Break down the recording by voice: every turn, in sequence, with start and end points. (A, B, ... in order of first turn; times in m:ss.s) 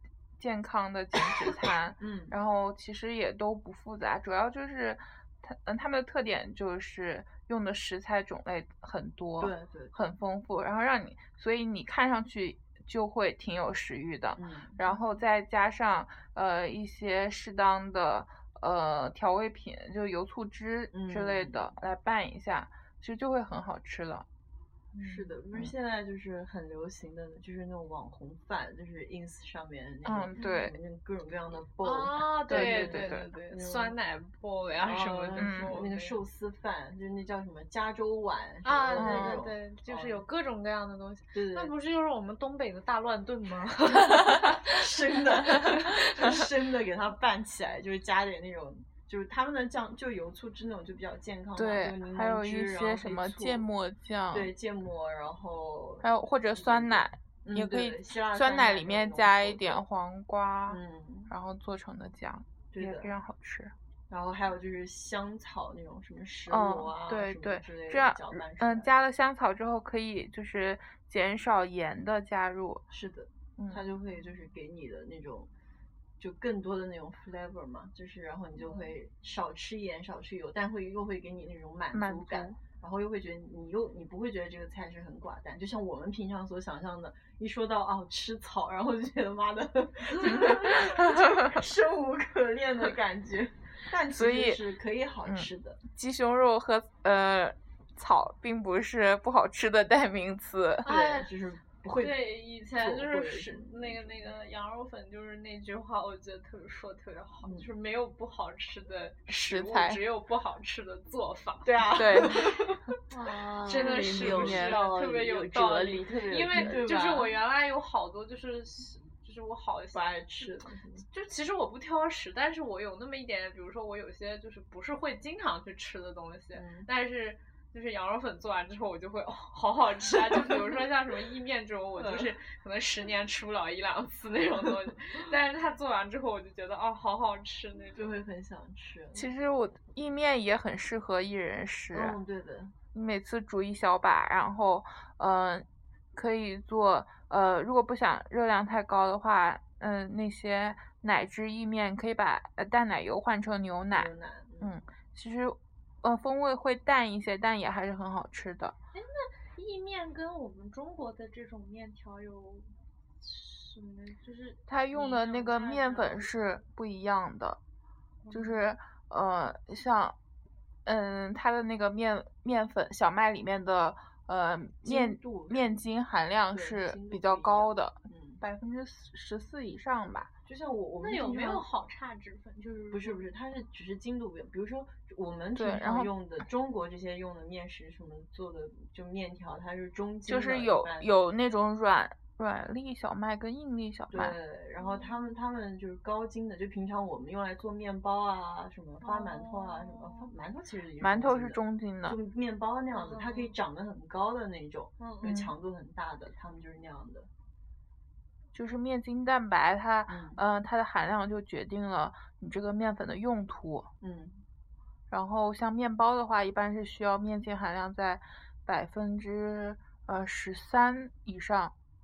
0:00.4-0:24.3 A
0:02.0-0:02.4 B
0:09.4-0:10.0 B
0:14.4-0:14.8 B
0:20.9-0:21.7 B
0:24.9-0:25.3 C
0:25.0-0:34.0 B
0:30.0-0:30.8 A
0:31.8-0:36.2 C
0:32.5-0:33.3 A
0:34.8-0:40.2 B
0:35.4-0:35.8 A
0:38.6-0:46.4 C
0:39.0-0:39.4 A
0:41.3-0:41.7 B
0:44.6-0:53.7 B
0:51.6-0:54.5 A
0:54.3-0:59.8 B
0:56.0-1:03.7 A
1:00.7-1:01.3 B
1:02.7-1:03.1 B
1:04.1-1:09.0 B
1:06.5-1:12.8 A
1:12.9-1:15.5 B
1:13.6-1:13.8 A
1:16.2-1:35.8 B
1:21.9-1:22.6 A
1:30.3-1:31.6 A
1:34.1-1:34.6 A
1:35.3-1:40.9 A
1:40.8-1:41.3 C
1:40.8-1:44.2 B
1:42.0-1:52.3 C
1:47.4-1:47.7 B
1:49.3-1:50.0 A
1:51.6-1:52.8 B
1:52.0-1:52.5 A
1:53.1-1:56.8 D
1:53.6-2:18.2 C
1:53.7-1:54.8 B
1:54.3-1:54.8 A
1:56.5-1:57.3 B
1:59.9-2:01.0 B
2:06.5-2:06.9 B
2:12.0-2:12.3 B
2:18.0-2:19.3 B
2:19.1-2:22.2 A
2:21.9-2:22.8 B
2:22.9-2:38.8 A
2:33.9-2:34.7 B
2:38.9-2:46.4 C
2:44.7-2:47.6 A
2:48.2-2:48.6 C
2:48.3-2:50.2 A
2:50.8-3:00.3 A
2:54.8-2:55.8 B
2:56.5-2:58.4 B
3:00.5-3:01.7 B
3:01.0-3:03.2 C
3:02.9-3:11.1 B
3:05.6-3:06.1 A
3:10.3-3:14.4 A
3:14.1-3:27.3 B
3:14.8-3:15.1 C
3:19.0-3:20.3 C
3:21.0-3:22.2 A
3:23.0-3:23.6 C
3:25.0-3:25.4 C
3:25.2-3:25.5 A
3:28.5-3:33.9 A
3:30.1-3:30.4 B
3:34.0-3:34.4 B
3:35.1-3:41.7 A